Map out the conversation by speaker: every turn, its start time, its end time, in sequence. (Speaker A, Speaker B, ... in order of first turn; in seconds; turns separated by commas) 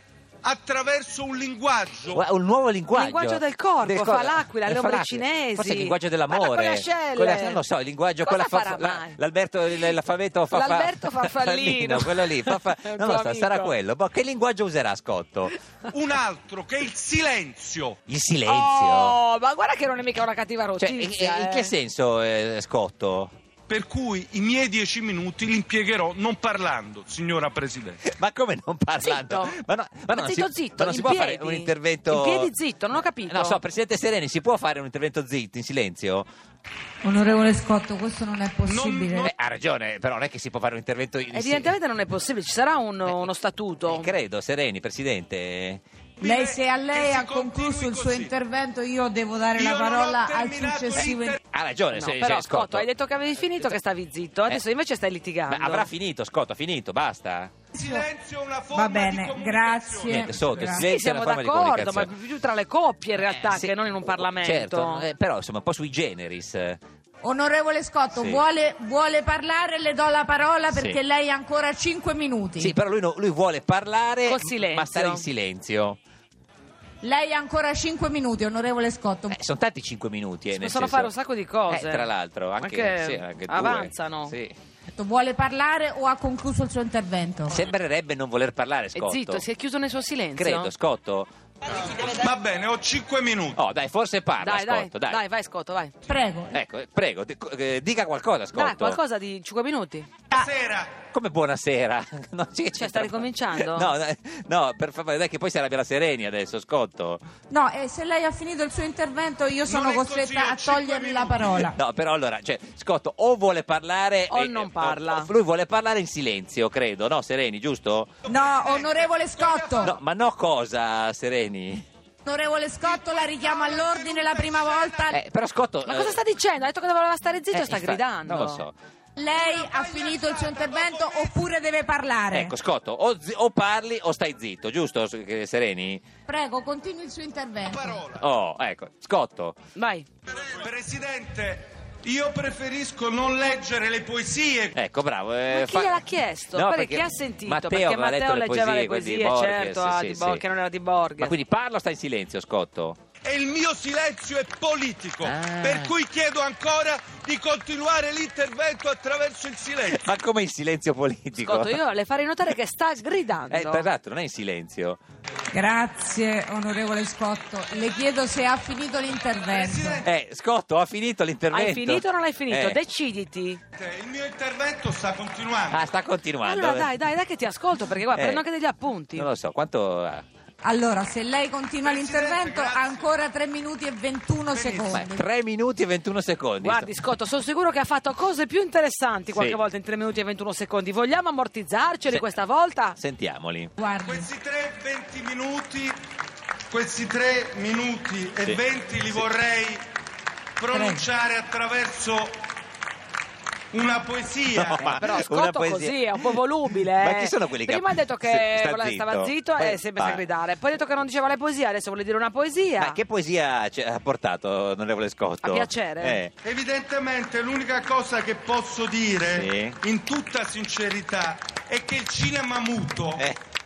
Speaker A: 0.4-2.2, Speaker B: 2.1-15.5, Speaker C: 2.9-7.6, Speaker C: 8.2-9.2, Speaker C: 10.5-13.7, Speaker A: 15.9-18.0, Speaker B: 18.1-19.2, Speaker C: 18.4-21.7, Speaker B: 20.8-23.3, Speaker A: 23.7-28.0, Speaker B: 28.1-32.5, Speaker C: 29.0-29.6, Speaker C: 30.1-33.6, Speaker B: 33.3-36.3, Speaker D: 37.0-39.2, Speaker A: 38.6-39.3, Speaker B: 39.2-41.7, Speaker C: 41.3-44.1, Speaker B: 43.9-45.8, Speaker A: 46.2-48.3, Speaker D: 46.2-51.4, Speaker A: 49.5-51.4, Speaker B: 51.5-52.9, Speaker C: 51.9-55.9, Speaker B: 55.5-57.5, Speaker D: 57.7-58.0, Speaker A: 57.8-60.8, Speaker D: 58.7-60.3, Speaker B: 60.1-62.1, Speaker C: 60.8-65.0, Speaker B: 63.4-66.8, Speaker D: 67.2-72.7, Speaker B: 68.1-68.4, Speaker B: 70.7-71.0, Speaker B: 72.6-76.0, Speaker C: 74.2-75.2, Speaker D: 77.0-79.3, Speaker B: 79.3-81.1, Speaker C: 80.5-84.3, Speaker B: 81.7-84.5, Speaker D: 85.0-87.6, Speaker B: 87.5-89.5, Speaker C: 88.9-90.7, Speaker B: 90.4-91.3, Speaker A: 92.0-93.6, Speaker B: 93.5-95.2, Speaker C: 94.4-95.9, Speaker D: 96.1-96.5, Speaker B: 96.5-99.0, Speaker C: 98.5-100.3, Speaker A: 100.3-101.0, Speaker B: 101.1-107.2, Speaker C: 102.8-103.9, Speaker D: 107.5-111.7, Speaker A: 109.7-111.7, Speaker B: 111.7-118.1, Speaker C: 114.3-115.3, Speaker A: 118.2-119.9, Speaker D: 118.3-119.8, Speaker B: 119.8-121.8, Speaker D: 122.2-125.1, Speaker A: 122.8-125.1, Speaker B: 125.1-126.2, Speaker C: 125.8-128.6, Speaker B: 127.5-128.7, Speaker D: 129.2-132.5, Speaker A: 129.3-131.4, Speaker B: 132.3-136.0, Speaker D: 136.3-137.8, Speaker A: 137.7-138.3, Speaker B: 138.2-139.6, Speaker C: 139.8-140.1, Speaker A: 140.3-144.8, Speaker B: 144.7-150.4, Speaker C: 145.5-151.3, Speaker B: 151.2-153.0, Speaker A: 153.2-160.1, Speaker B: 155.2-155.9, Speaker B: 159.9-161.8, Speaker C: 161.3-163.9, Speaker B: 163.5-165.0, Speaker D: 165.6-169.9, Speaker A: 169.4-170.1, Speaker B: 170.0-172.8, Speaker C: 171.5-173.6, Speaker A: 173.7-175.8, Speaker B: 175.7-176.9, Speaker C: 176.4-179.3, Speaker B: 178.1-178.5, Speaker B: 179.1-180.2, Speaker D: 180.6-185.1, Speaker A: 181.8-183.1, Speaker A: 184.5-185.0, Speaker B: 184.9-186.9, Speaker C: 186.6-193.0, Speaker B: 189.3-189.6, Speaker B: 192.9-193.7, Speaker D: 193.8-194.2, Speaker A: 194.0-196.0, Speaker A: 196.7-199.8, Speaker B: 198.4-199.3, Speaker A: 200.6-202.4, Speaker B: 200.7-201.0, Speaker A: 203.7-205.0, Speaker B: 204.5-210.2, Speaker C: 204.9-213.0, Speaker B: 212.8-216.3, Speaker C: 215.4-216.2, Speaker A: 216.4-223.3, Speaker B: 219.3-219.8